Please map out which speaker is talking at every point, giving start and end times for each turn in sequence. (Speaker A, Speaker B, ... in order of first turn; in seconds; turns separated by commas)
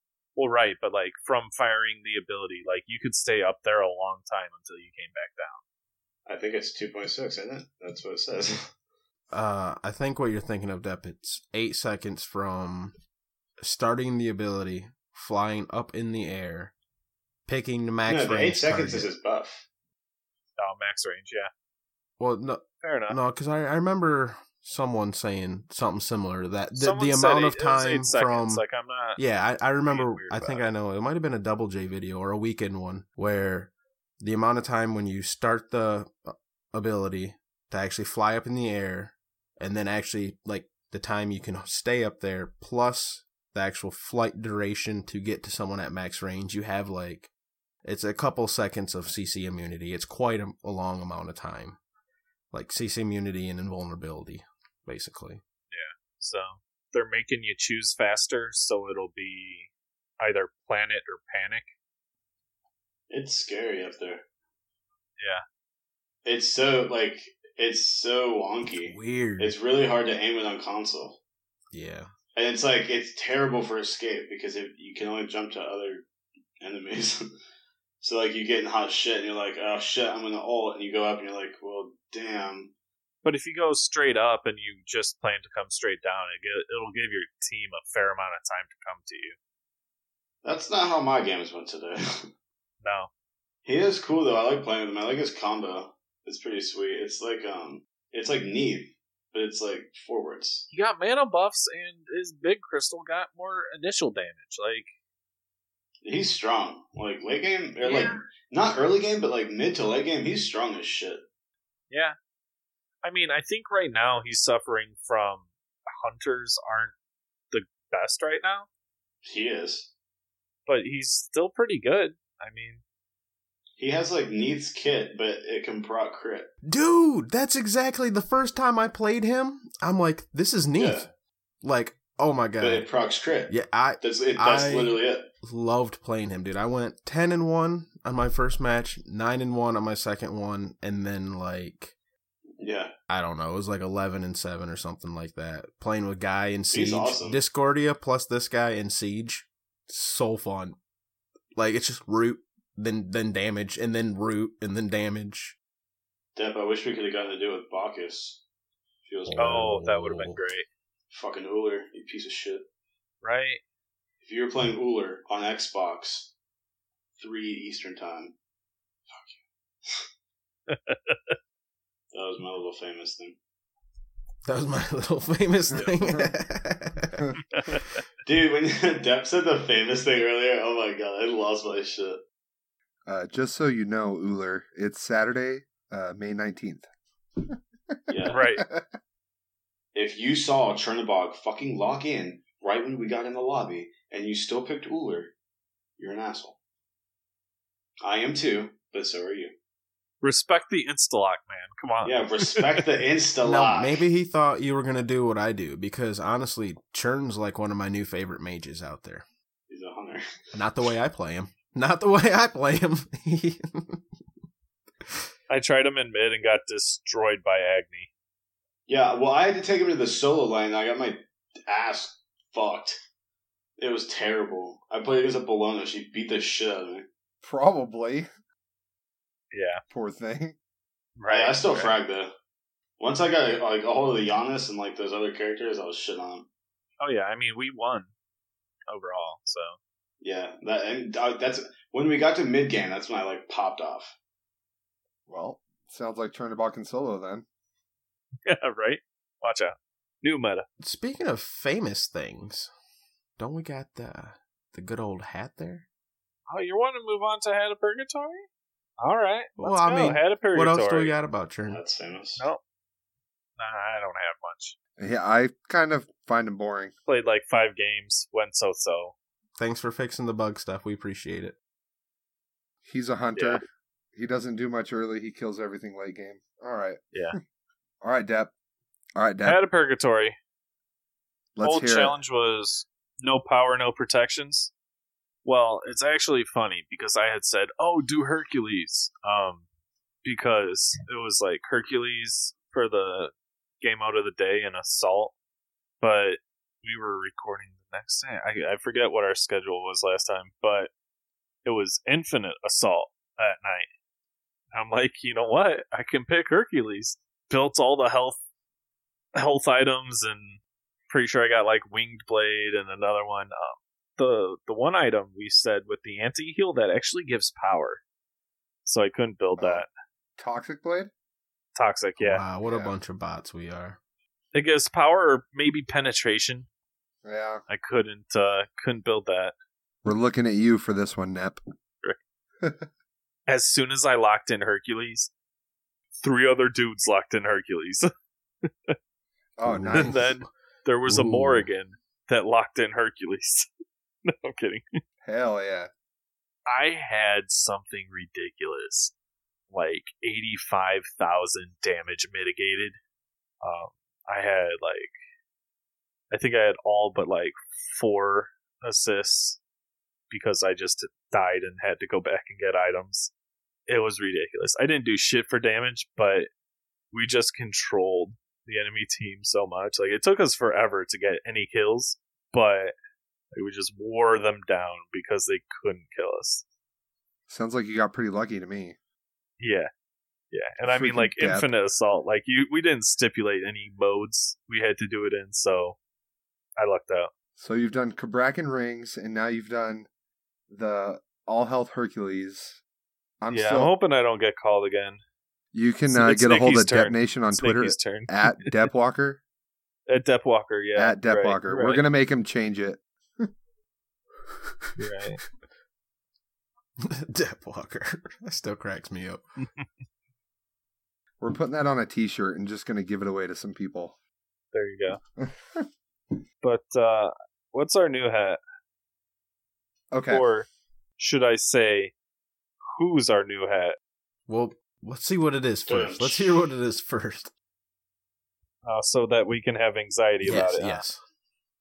Speaker A: 0.4-5.6, Speaker B: 6.3-8.7, Speaker C: 9.3-13.0, Speaker C: 13.6-16.7, Speaker C: 17.5-19.1, Speaker B: 18.1-19.7, Speaker A: 20.6-21.5, Speaker C: 22.2-28.6, Speaker A: 22.8-23.2, Speaker A: 26.8-29.2, Speaker C: 29.2-47.3, Speaker A: 29.9-30.7, Speaker C: 47.9-51.8, Speaker C: 52.5-55.4, Speaker A: 55.7-61.7, Speaker B: 63.1-64.2, Speaker A: 65.2-65.4, Speaker B: 66.2-71.2, Speaker C: 68.7-69.5, Speaker C: 71.7-72.1, Speaker B: 72.3-76.1, Speaker B: 76.6-77.3, Speaker B: 78.0-82.7, Speaker A: 83.2-89.4, Speaker B: 90.4-92.2, Speaker A: 92.8-93.1, Speaker B: 93.7-100.7, Speaker A: 100.7-104.9, Speaker B: 106.0-111.2, Speaker A: 107.8-108.2, Speaker A: 111.9-112.2, Speaker A: 113.0-116.9, Speaker A: 117.5-118.7, Speaker B: 119.2-119.9, Speaker A: 120.7-122.8, Speaker B: 123.8-126.5, Speaker C: 126.7-131.1, Speaker B: 130.8-131.1, Speaker C: 131.6-132.9, Speaker B: 132.6-135.3, Speaker C: 133.5-141.9, Speaker B: 142.6-142.9, Speaker C: 143.1-150.8, Speaker B: 146.7-147.4, Speaker C: 151.6-155.6, Speaker B: 156.3-158.4, Speaker B: 159.1-159.6, Speaker C: 159.3-160.4, Speaker A: 159.4-160.7, Speaker B: 161.1-162.7, Speaker A: 163.2-163.6, Speaker B: 164.2-166.3, Speaker B: 167.2-168.3, Speaker B: 169.1-170.0, Speaker A: 170.7-171.4, Speaker B: 172.1-173.4, Speaker C: 174.4-177.2, Speaker D: 175.7-176.3, Speaker A: 177.5-178.0, Speaker B: 178.2-182.2, Speaker D: 183.1-186.9, Speaker D: 187.4-188.9, Speaker B: 188.1-188.4, Speaker A: 188.3-188.7, Speaker B: 189.9-195.3, Speaker B: 196.0-196.6, Speaker B: 198.0-199.6, Speaker A: 200.2-202.7, Speaker B: 202.0-204.0, Speaker C: 203.4-209.2, Speaker B: 209.7-210.2, Speaker C: 210.5-214.0, Speaker A: 215.5-218.1, Speaker B: 218.9-223.0, Speaker B: 223.8-227.1, Speaker D: 227.4-228.3, Speaker A: 229.5-229.8, Speaker D: 229.9-230.6, Speaker A: 231.2-231.9, Speaker B: 231.3-232.3, Speaker B: 233.0-236.5, Speaker A: 237.0-238.1, Speaker A: 238.9-239.8, Speaker B: 240.2-244.1, Speaker D: 245.3-247.4, Speaker A: 248.5-250.7, Speaker C: 250.8-252.7, Speaker C: 253.4-255.9, Speaker A: 256.5-258.5, Speaker A: 259.0-261.1, Speaker C: 259.6-261.8, Speaker B: 261.7-262.5, Speaker A: 263.6-264.8, Speaker D: 265.0-266.9, Speaker A: 267.1-269.1, Speaker C: 269.6-271.6, Speaker D: 272.8-273.6, Speaker A: 273.4-273.6, Speaker D: 274.1-277.0, Speaker D: 278.0-278.5, Speaker D: 279.2-279.6, Speaker A: 279.4-280.4, Speaker D: 281.6-282.2, Speaker A: 281.6-284.7, Speaker A: 285.4-289.6, Speaker A: 290.2-295.3, Speaker A: 296.0-300.9, Speaker A: 301.6-303.9, Speaker A: 304.7-308.4, Speaker A: 309.4-318.0, Speaker A: 318.9-319.9, Speaker D: 319.6-319.9, Speaker D: 320.4-321.1, Speaker A: 321.8-322.4, Speaker C: 322.2-324.0, Speaker D: 322.7-322.9, Speaker A: 324.5-326.7, Speaker D: 327.2-327.6, Speaker A: 327.7-329.5, Speaker D: 330.1-331.6, Speaker D: 332.6-332.9, Speaker A: 333.5-335.3, Speaker A: 336.2-338.1, Speaker A: 338.6-339.0, Speaker D: 339.6-340.2, Speaker C: 339.6-340.5, Speaker A: 339.9-343.7, Speaker C: 341.1-341.7, Speaker A: 344.3-344.9, Speaker D: 345.2-345.9, Speaker A: 346.7-349.1, Speaker A: 349.7-353.0, Speaker A: 353.6-355.1, Speaker A: 356.3-359.6, Speaker A: 360.3-363.3, Speaker A: 363.9-366.5, Speaker A: 367.1-372.9, Speaker A: 373.5-376.6, Speaker D: 377.5-379.0, Speaker A: 379.6-379.9, Speaker A: 380.5-386.0, Speaker D: 380.9-381.7, Speaker A: 386.8-387.3, Speaker D: 387.6-390.1, Speaker D: 390.7-392.8, Speaker D: 393.4-393.9, Speaker A: 393.5-395.2, Speaker D: 395.7-399.4, Speaker A: 396.1-398.8, Speaker A: 400.1-402.1, Speaker D: 401.0-403.5, Speaker A: 405.0-405.4, Speaker C: 407.0-409.4, Speaker D: 411.4-414.1, Speaker A: 414.7-415.2, Speaker D: 415.4-415.9, Speaker A: 416.6-418.6, Speaker D: 420.1-420.5, Speaker A: 420.3-420.7, Speaker A: 421.2-422.1, Speaker A: 422.9-424.0, Speaker C: 424.5-427.5, Speaker B: 425.9-426.7, Speaker A: 428.9-431.0, Speaker C: 430.4-431.2